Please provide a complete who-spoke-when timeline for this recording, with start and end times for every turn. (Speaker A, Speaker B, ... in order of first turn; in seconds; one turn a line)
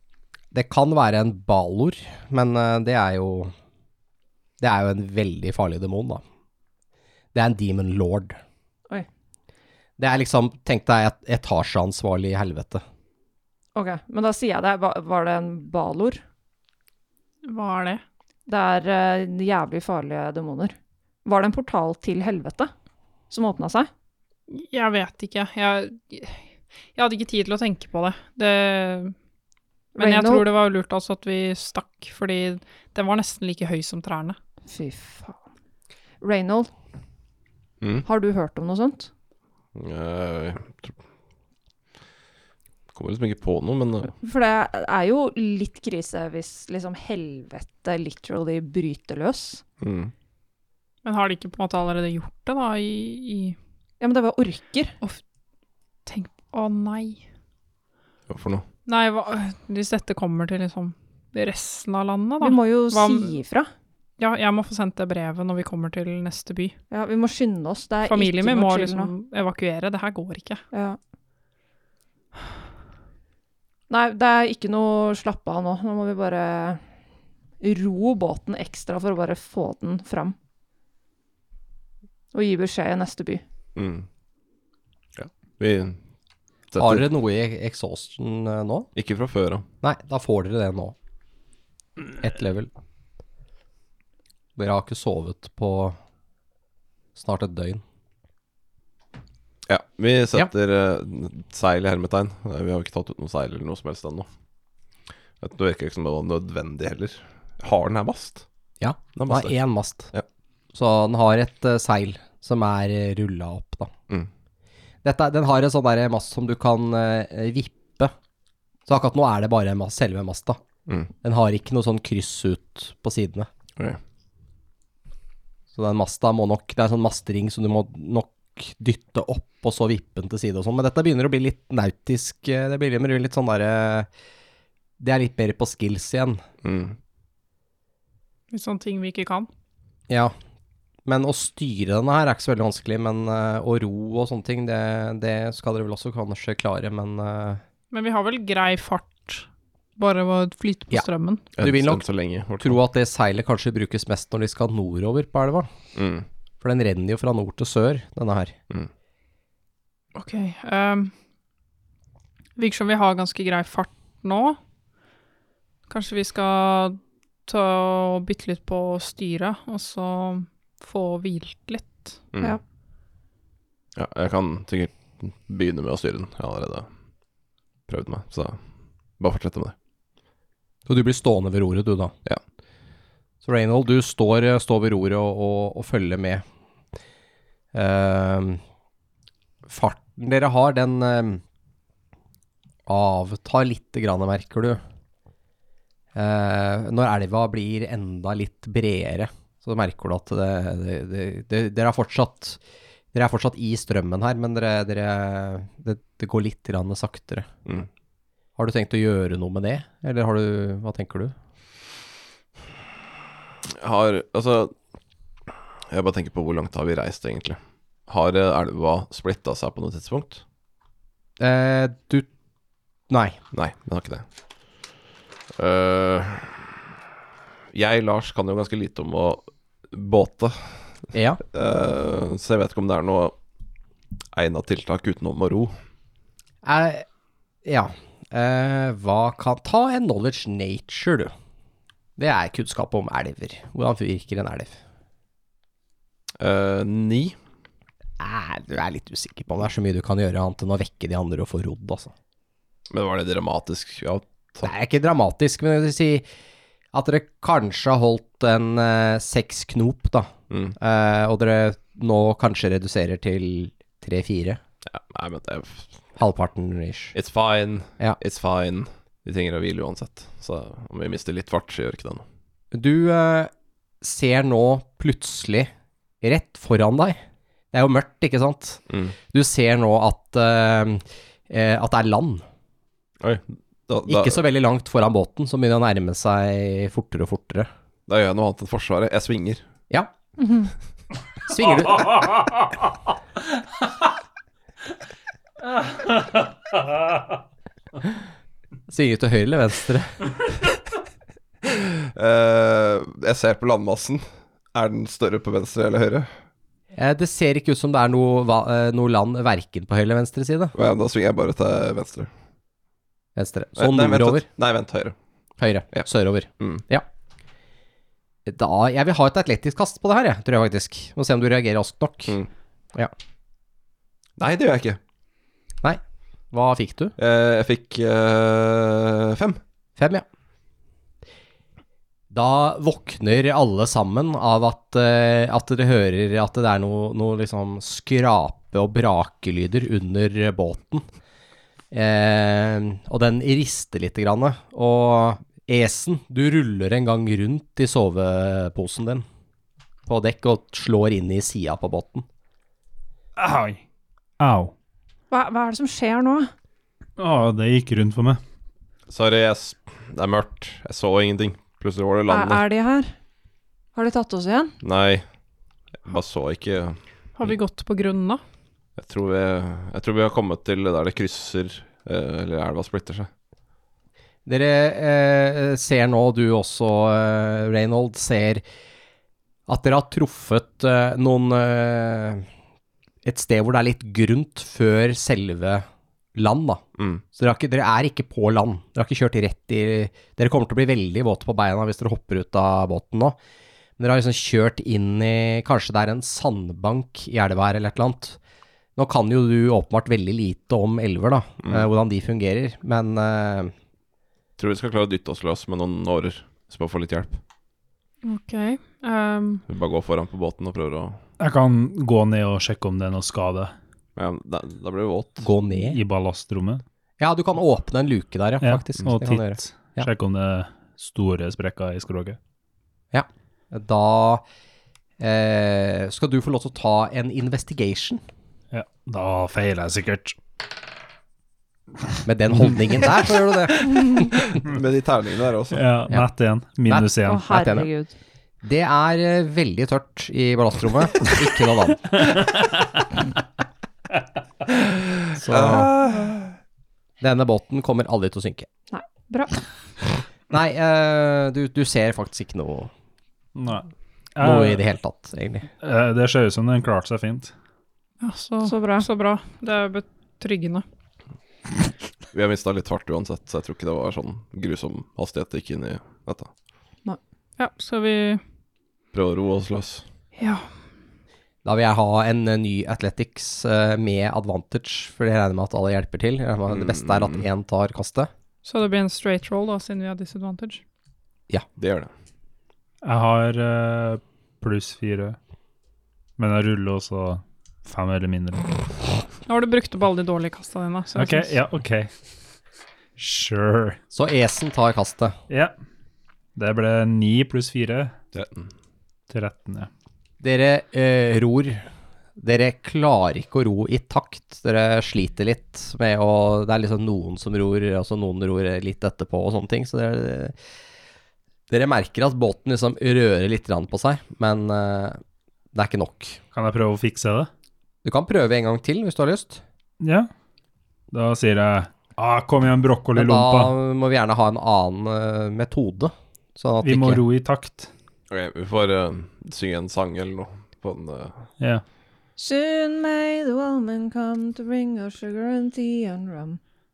Speaker A: 0.5-3.5
Speaker A: 4.6-6.2
Speaker A: 7.3-8.4
Speaker A: 10.0-12.8
Speaker B: 13.8-16.2
Speaker C: 17.4-18.0
Speaker B: 18.5-22.7
Speaker B: 23.3-23.9
Speaker C: 24.5-29.1
Speaker C: 30.0-34.4
Speaker B: 30.0-30.5
Speaker B: 34.7-35.4
Speaker B: 36.2-36.7
Speaker D: 37.8-38.1
Speaker B: 38.0-39.1
Speaker D: 39.8-41.0
Speaker D: 42.9-44.1
Speaker B: 44.2-49.6
Speaker D: 49.8-50.1
Speaker C: 51.0-53.6
Speaker B: 54.0-55.0
Speaker C: 56.1-57.2
Speaker D: 58.3-58.6
Speaker C: 58.9-63.4
Speaker B: 62.4-63.7
Speaker C: 64.2-66.8
Speaker B: 66.9-69.1
Speaker C: 68.1-70.6
Speaker B: 70.7-71.0
Speaker B: 73.9-76.8
Speaker B: 77.6-80.3
Speaker B: 82.3-83.4
Speaker D: 83.8-84.1
Speaker D: 85.2-86.0
Speaker D: 86.7-87.1
Speaker A: 86.8-88.9
Speaker D: 89.0-89.7
Speaker A: 89.8-91.0
Speaker A: 92.2-92.7
Speaker A: 94.6-96.0
Speaker A: 97.2-97.8
Speaker D: 99.7-104.3
Speaker D: 105.4-108.5
Speaker A: 108.8-110.1
Speaker D: 109.2-109.6
Speaker A: 110.7-113.9
Speaker A: 115.0-118.1
Speaker A: 118.9-120.6
Speaker A: 121.2-123.5
Speaker A: 125.7-134.1
Speaker A: 135.0-136.4
Speaker D: 136.6-137.0
Speaker C: 138.5-139.5
Speaker A: 141.1-147.6
Speaker C: 147.9-151.4
Speaker D: 151.6-152.8
Speaker A: 151.6-152.0
Speaker A: 152.6-155.7
Speaker D: 155.9-156.3
Speaker A: 156.6-158.6
Speaker C: 160.2-161.1
Speaker C: 162.6-164.6
Speaker C: 165.9-172.2
Speaker D: 174.0-176.9
Speaker D: 177.9-178.6
Speaker D: 179.2-179.8
Speaker A: 180.9-182.1
Speaker A: 183.4-186.4
Speaker A: 187.7-188.6
Speaker A: 189.7-191.4
Speaker A: 192.9-194.8
Speaker A: 196.1-202.6
Speaker A: 203.1-207.5
Speaker A: 208.6-211.3
Speaker D: 213.7-214.7
Speaker D: 215.9-220.4
Speaker A: 221.4-222.3
Speaker A: 223.1-223.4
Speaker D: 223.5-224.2
Speaker D: 225.6-226.7
Speaker D: 227.7-233.4
Speaker A: 231.1-231.4
Speaker D: 234.3-235.8
Speaker A: 236.6-237.1
Speaker A: 237.7-241.3
Speaker A: 242.2-244.8
Speaker D: 246.4-247.4
Speaker A: 248.2-252.1
Speaker D: 252.9-254.7
Speaker A: 254.6-256.2
Speaker A: 256.9-264.6
Speaker D: 260.5-260.8
Speaker D: 264.9-266.0
Speaker A: 266.2-267.1
Speaker D: 267.1-272.2
Speaker A: 272.7-275.7
Speaker A: 276.2-277.2
Speaker A: 277.7-282.4
Speaker D: 283.2-284.4
Speaker A: 284.1-287.7
Speaker D: 288.1-289.6
Speaker B: 290.4-290.7
Speaker A: 291.5-292.2
Speaker E: 292.0-292.7
Speaker A: 298.9-300.3
Speaker D: 301.6-306.3
Speaker A: 306.9-310.7
Speaker D: 310.7-312.3
Speaker A: 313.4-314.5
Speaker D: 313.8-315.1
Speaker A: 315.6-317.1
Speaker A: 318.5-322.4
Speaker D: 324.4-325.0
Speaker A: 326.5-327.1
Speaker D: 327.2-329.6
Speaker A: 330.0-330.2
Speaker A: 332.3-341.0
Speaker A: 341.9-349.2
Speaker A: 350.1-352.3
Speaker E: 353.4-353.8
Speaker E: 354.4-354.7
Speaker B: 355.3-356.5
Speaker E: 357.2-358.4
Speaker D: 359.1-362.6
Speaker B: 362.3-363.1
Speaker B: 363.9-364.8
Speaker D: 364.8-365.2
Speaker D: 366.0-367.0
Speaker C: 367.4-368.4
Speaker D: 369.0-373.3
Speaker A: 374.5-378.6
Speaker A: 379.7-382.5
Speaker A: 383.2-393.4
Speaker A: 394.0-398.4
Speaker A: 399.0-403.7
Speaker D: 404.6-407.4
Speaker C: 408.2-409.6
Speaker D: 409.7-411.2
Speaker E: 411.4-413.7
Speaker D: 414.2-415.5
Speaker A: 415.4-416.0
Speaker E: 415.8-416.8
Speaker A: 417.2-420.1
Speaker E: 418.6-422.4
Speaker A: 423.1-424.4
Speaker A: 425.2-428.2
Speaker E: 428.7-430.4
Speaker A: 432.2-434.4
Speaker D: 434.6-435.8
Speaker E: 435.7-437.5
Speaker A: 436.9-437.9
Speaker B: 437.2-438.1
Speaker A: 438.6-442.3
Speaker E: 442.3-442.6
Speaker A: 445.4-446.0
Speaker D: 445.5-446.4
Speaker A: 447.2-448.7
Speaker B: 448.9-449.6
Speaker A: 450.5-452.9
Speaker E: 453.6-454.8
Speaker A: 454.4-455.7
Speaker E: 455.8-457.5
Speaker C: 458.2-460.8
Speaker B: 458.6-459.1
Speaker D: 462.3-466.5
Speaker C: 467.6-468.4
Speaker D: 469.1-470.1
Speaker C: 470.4-470.7
Speaker A: 471.6-478.3
Speaker D: 476.7-477.4
Speaker C: 478.6-480.8
Speaker D: 481.8-482.1
Speaker E: 483.0-485.4
Speaker E: 486.4-488.8
Speaker C: 489.5-491.5
Speaker E: 491.1-492.1
Speaker E: 493.2-494.0
Speaker A: 494.1-495.4
Speaker E: 496.6-498.1
Speaker D: 498.3-498.7
Speaker E: 499.3-499.9
Speaker A: 500.4-501.9
Speaker A: 502.4-510.6
Speaker A: 511.7-515.2
Speaker A: 515.7-516.4
Speaker E: 516.5-517.5
Speaker A: 518.0-519.6
Speaker E: 520.0-520.3
Speaker E: 521.1-523.8
Speaker A: 523.1-527.2
Speaker E: 526.8-527.9
Speaker D: 528.3-531.5
Speaker B: 532.4-536.6